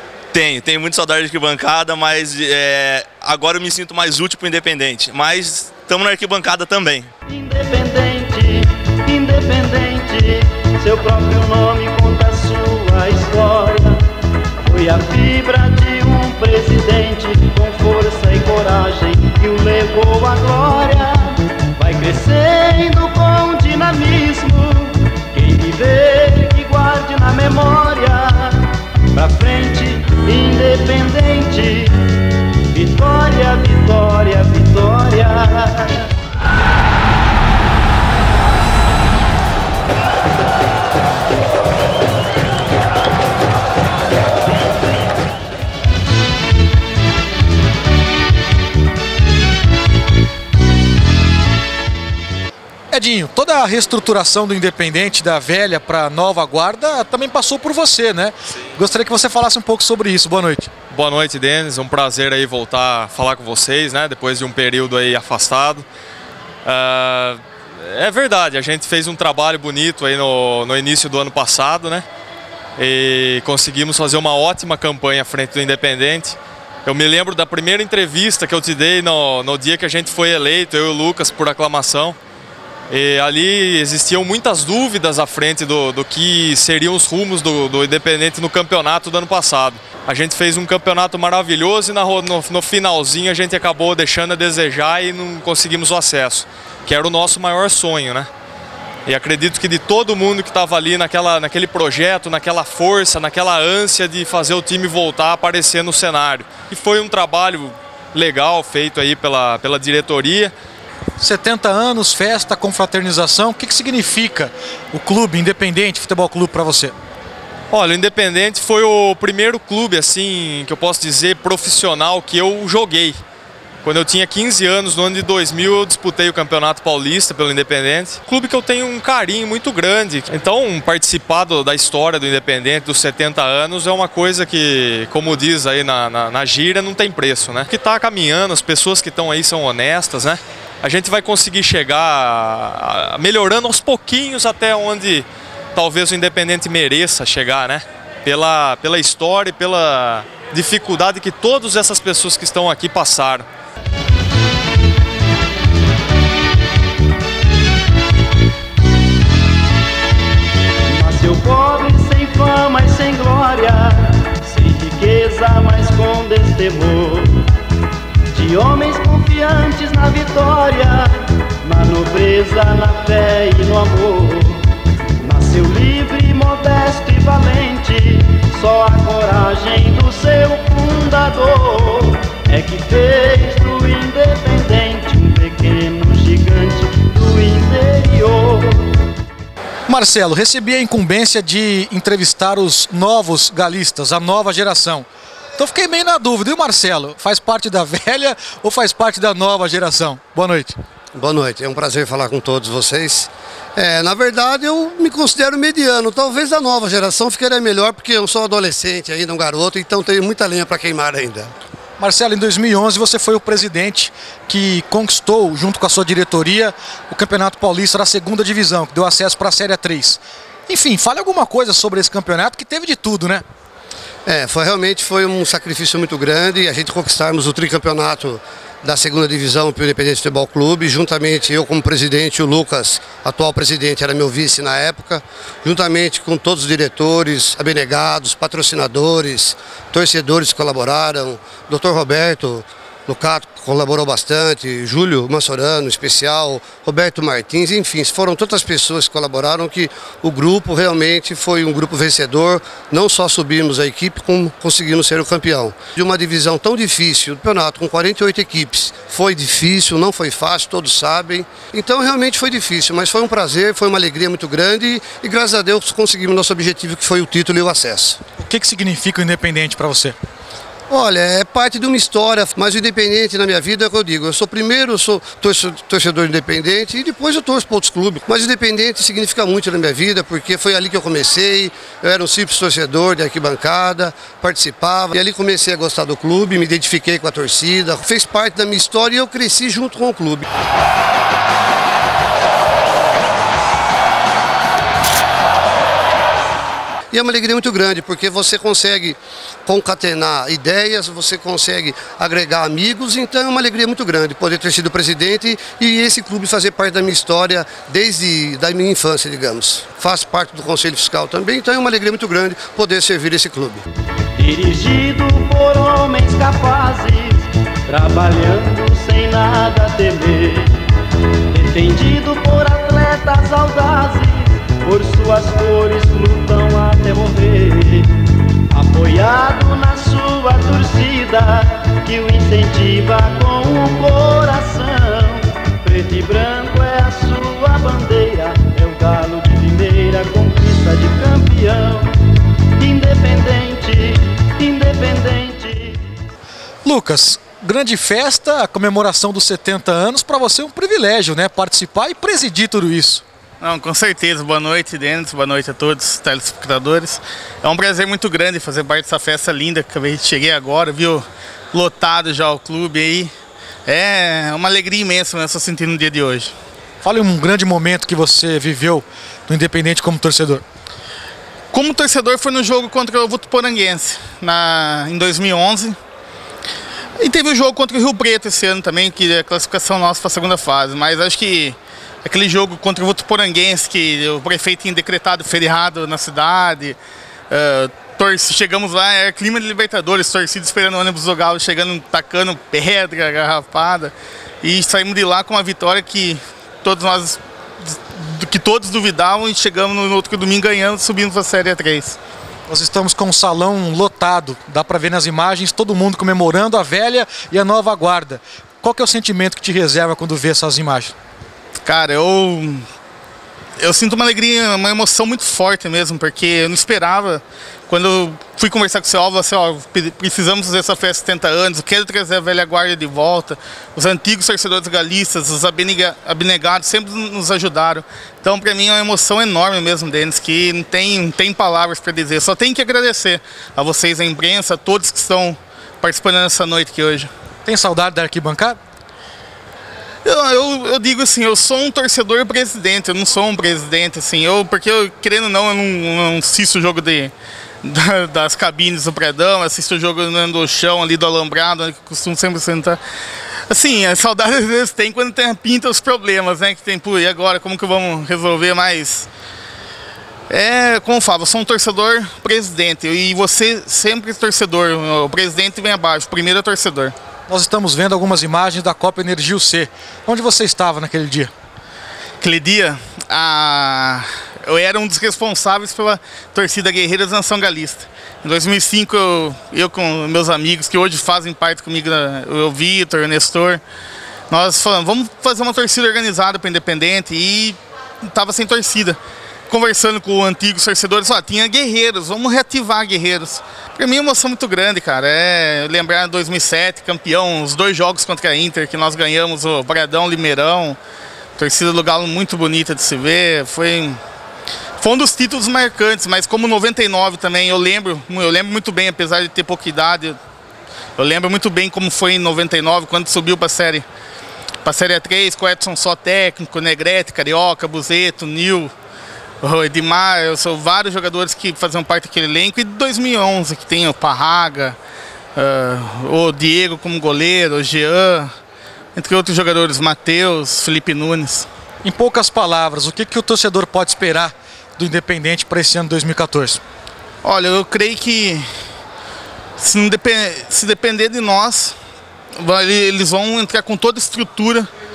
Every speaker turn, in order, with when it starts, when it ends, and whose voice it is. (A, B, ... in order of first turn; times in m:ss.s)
0:00.3-0:07.1 A
0:07.3-0:14.0 B
0:14.6-0:36.1 B
0:52.9-1:00.7 C
1:00.9-1:05.8 D
1:06.6-1:12.0 D
1:12.8-1:22.2 D
1:22.9-1:38.3 D
1:39.0-1:50.5 D
1:51.2-1:56.9 C
1:57.7-2:03.2 D
2:03.8-2:33.4 D
2:40.9-2:47.4 B
2:48.3-2:54.6 B
2:55.2-3:08.9 B
3:09.9-3:20.8 C
3:21.1-3:31.5 E
3:32.0-3:43.4 C
3:44.2-4:28.2 E
4:28.4-4:30.2 C
4:30.9-4:50.4 E
4:57.1-5:13.8 E
5:14.4-5:20.8 B
5:21.5-5:42.2 B
5:42.8-5:46.1 B
5:46.8-5:53.2 C
5:53.6-6:03.3 F
6:03.8-6:06.5 F
6:07.0-6:10.6 C
6:11.7-6:15.9 F
6:17.2-6:27.0 F
6:27.5-6:42.2 F
6:42.7-6:51.1 C
6:51.8-6:52.8 F
6:53.8-7:17.3 F
7:17.6-7:18.8 C
7:20.2-7:27.3 F
7:27.8-7:33.0 F
7:33.7-7:39.3 F
7:40.5-7:47.1 F
7:47.5-7:51.5 C
7:52.4-8:03.8 F
8:04.5-8:09.2 F
8:09.7-8:21.0 F
8:21.6-8:24.2 F
8:25.0-8:30.4 F
8:31.2-8:34.0 F
8:34.8-8:38.9 F
8:39.6-8:45.0 F
8:45.6-8:48.5 F
8:49.1-8:51.7 F
8:52.0-8:56.8 C
8:57.4-8:58.6 F
8:59.8-9:01.9 F
9:02.6-9:04.9 F